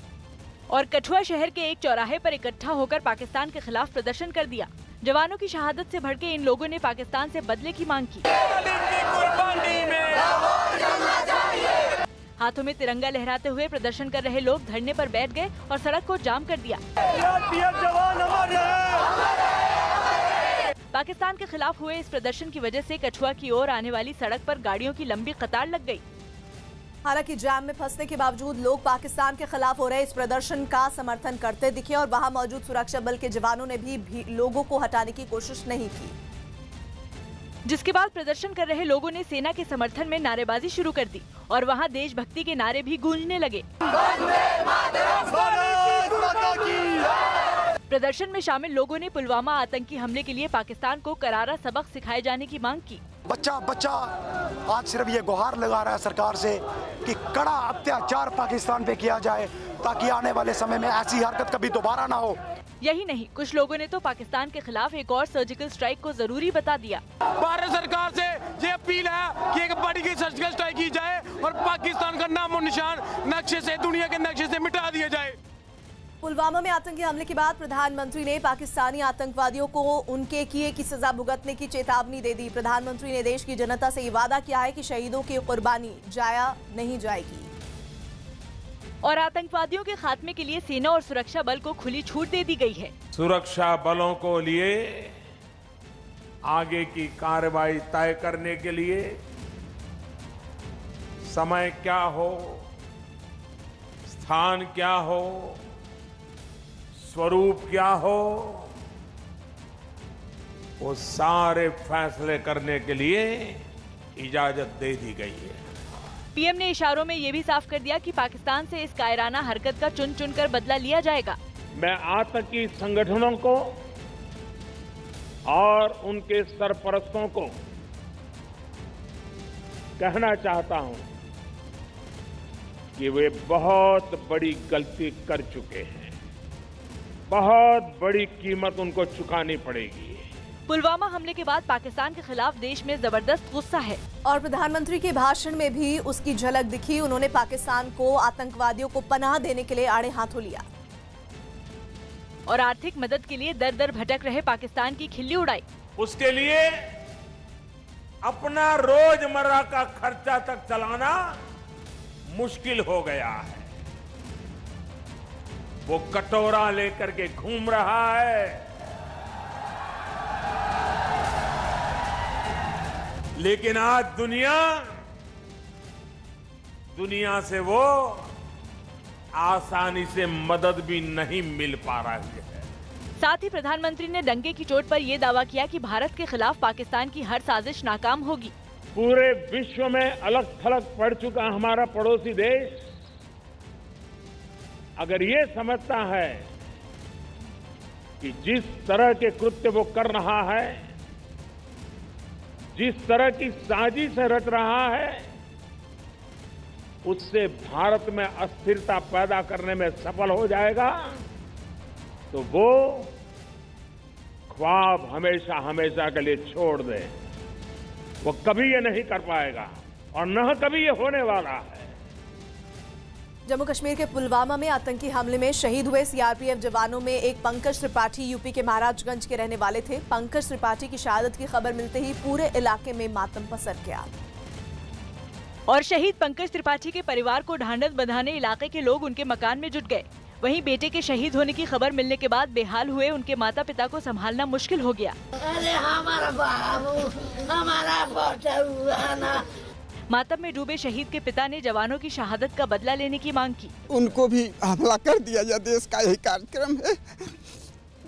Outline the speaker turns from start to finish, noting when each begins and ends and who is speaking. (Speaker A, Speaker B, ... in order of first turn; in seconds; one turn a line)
Speaker A: 0.7-8.3
Speaker B: 8.9-10.2
Speaker A: 12.4-16.8
Speaker A: 20.9-26.0
Speaker C: 27.1-36.1
Speaker A: 37.7-43.6
Speaker A: 47.9-53.0
Speaker D: 53.3-54.1
Speaker D: 54.6-62.4
Speaker A: 62.8-67.0
Speaker B: 67.4-75.4
Speaker C: 76.2-87.5
Speaker A: 89.0-92.9
Speaker E: 93.1-95.1
Speaker E: 96.5-99.2
Speaker E: 101.2-102.6
Speaker E: 104.1-105.6
Speaker E: 107.0-108.7
Speaker E: 110.8-113.6
Speaker E: 114.2-115.6
Speaker A: 116.3-121.4
Speaker E: 121.8-123.7
Speaker E: 125.5-127.5
Speaker E: 130.0-131.1
Speaker E: 133.0-136.1
Speaker E: 137.3-140.2
Speaker A: 140.7-144.0
Speaker C: 144.2-150.6
Speaker A: 152.5-155.6
Speaker E: 156.0-156.7
Speaker E: 158.2-161.3
Speaker E: 162.3-163.7
Speaker E: 165.9-168.6
Speaker E: 173.4-174.9
Speaker E: 176.9-178.3
Speaker E: 179.3-182.6
Speaker A: 183.2-188.5
Speaker E: 189.0-192.8
Speaker E: 195.0-196.4
Speaker E: 198.2-200.8
Speaker E: 202.8-205.3
Speaker E: 207.1-211.2
Speaker E: 212.3-213.1
Speaker E: 214.5-217.1
Speaker E: 218.2-221.9
Speaker C: 223.5-234.1
Speaker A: 235.7-245.2
Speaker F: 245.5-249.4
Speaker A: 250.1-253.7
Speaker G: 253.9-257.3